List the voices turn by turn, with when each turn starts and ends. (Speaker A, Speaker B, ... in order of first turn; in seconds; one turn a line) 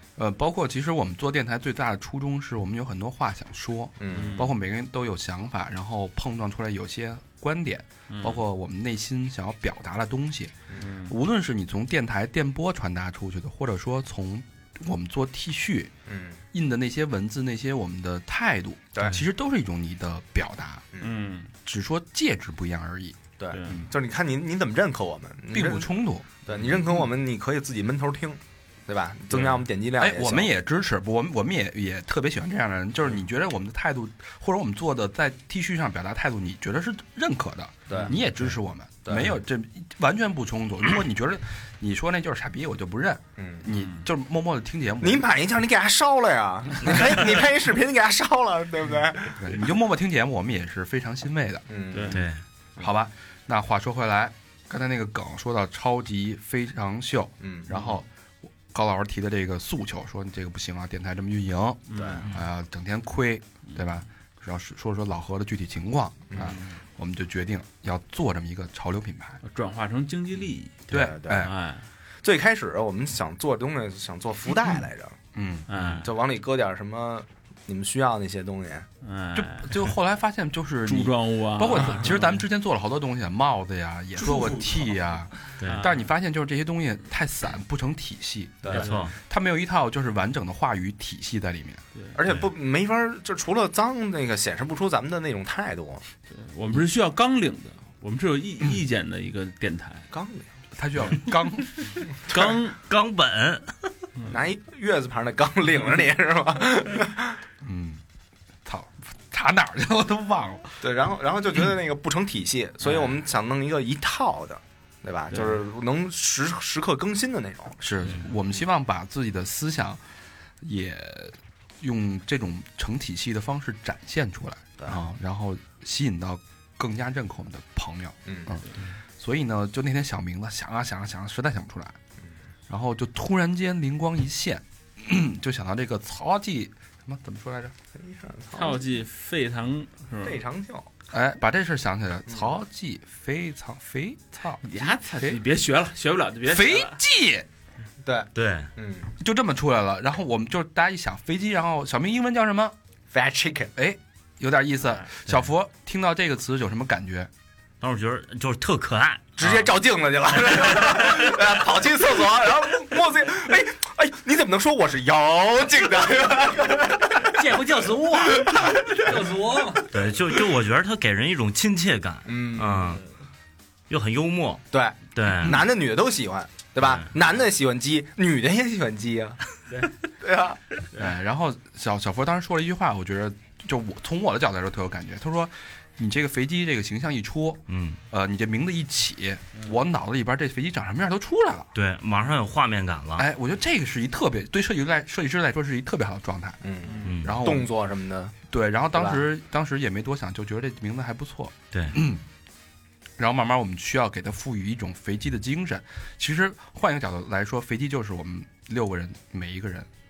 Speaker A: 0.2-10.5
Speaker B: 4.0-4.4
Speaker C: 4.1-4.5
Speaker C: 8.1-8.4
Speaker C: 10.8-11.1
Speaker A: 11.1-15.9
Speaker B: 16.1-16.4
Speaker A: 16.5-20.8
Speaker C: 21.0-21.5
Speaker A: 21.7-23.9
Speaker B: 23.4-25.9
Speaker C: 23.5-23.8
Speaker A: 25.5-26.3
Speaker B: 26.5-30.5
Speaker C: 29.3-29.6
Speaker A: 30.0-45.3
Speaker B: 37.9-38.2
Speaker B: 39.0-39.4
Speaker B: 43.4-43.7
Speaker C: 43.8-44.0
Speaker B: 45.0-49.5
Speaker A: 49.4-51.6
Speaker B: 51.7-52.2
Speaker C: 51.9-52.2
Speaker D: 52.1-52.4
Speaker A: 52.8-58.1
Speaker B: 57.4-57.7
Speaker C: 57.7-58.0
Speaker A: 58.7-69.4
Speaker C: 61.9-62.3
Speaker B: 62.0-62.2
Speaker B: 66.3-66.6
Speaker C: 66.4-66.7
Speaker C: 69.4-71.9
Speaker A: 70.9-71.5
Speaker B: 70.9-71.5
Speaker B: 72.2-75.2
Speaker A: 75.3-75.7
Speaker C: 75.7-76.1
Speaker B: 75.7-78.9
Speaker C: 79.0-80.0
Speaker A: 79.3-91.8
Speaker C: 80.8-82.4
Speaker E: 84.3-84.7
Speaker D: 85.6-85.9
Speaker C: 85.6-86.0
Speaker B: 88.6-89.0
Speaker D: 88.8-89.2
Speaker B: 92.2-96.0
Speaker C: 96.3-100.1
Speaker B: 100.1-100.5
Speaker A: 100.8-101.9
Speaker C: 102.3-102.8
Speaker D: 102.8-103.8
Speaker B: 104.3-107.4
Speaker A: 107.6-108.0
Speaker A: 108.7-110.8
Speaker B: 110.8-117.8
Speaker C: 115.3-115.6
Speaker A: 117.8-120.0
Speaker A: 120.6-128.6
Speaker B: 128.3-128.6
Speaker A: 129.2-132.0
Speaker A: 132.7-137.7
Speaker B: 137.9-138.9
Speaker C: 138.5-140.4
Speaker B: 140.2-140.9
Speaker A: 141.1-145.4
Speaker C: 144.6-147.0
Speaker A: 146.4-147.5
Speaker B: 148.0-149.1
Speaker D: 148.3-148.7
Speaker A: 149.2-152.8
Speaker B: 153.1-153.7
Speaker A: 153.8-157.3
Speaker D: 157.8-159.6
Speaker B: 159.4-167.3
Speaker E: 167.3-169.9
Speaker D: 169.9-173.0
Speaker B: 172.3-172.9
Speaker D: 173.9-175.6
Speaker B: 174.7-179.4
Speaker B: 180.2-180.6
Speaker A: 180.9-191.7
Speaker D: 187.7-188.0
Speaker D: 191.7-193.3
Speaker A: 193.2-196.6
Speaker B: 196.6-198.4
Speaker C: 196.9-197.1
Speaker D: 197.1-197.4
Speaker A: 197.2-197.7
Speaker A: 198.5-202.2
Speaker B: 198.9-199.2
Speaker D: 201.7-202.0
Speaker A: 203.2-209.9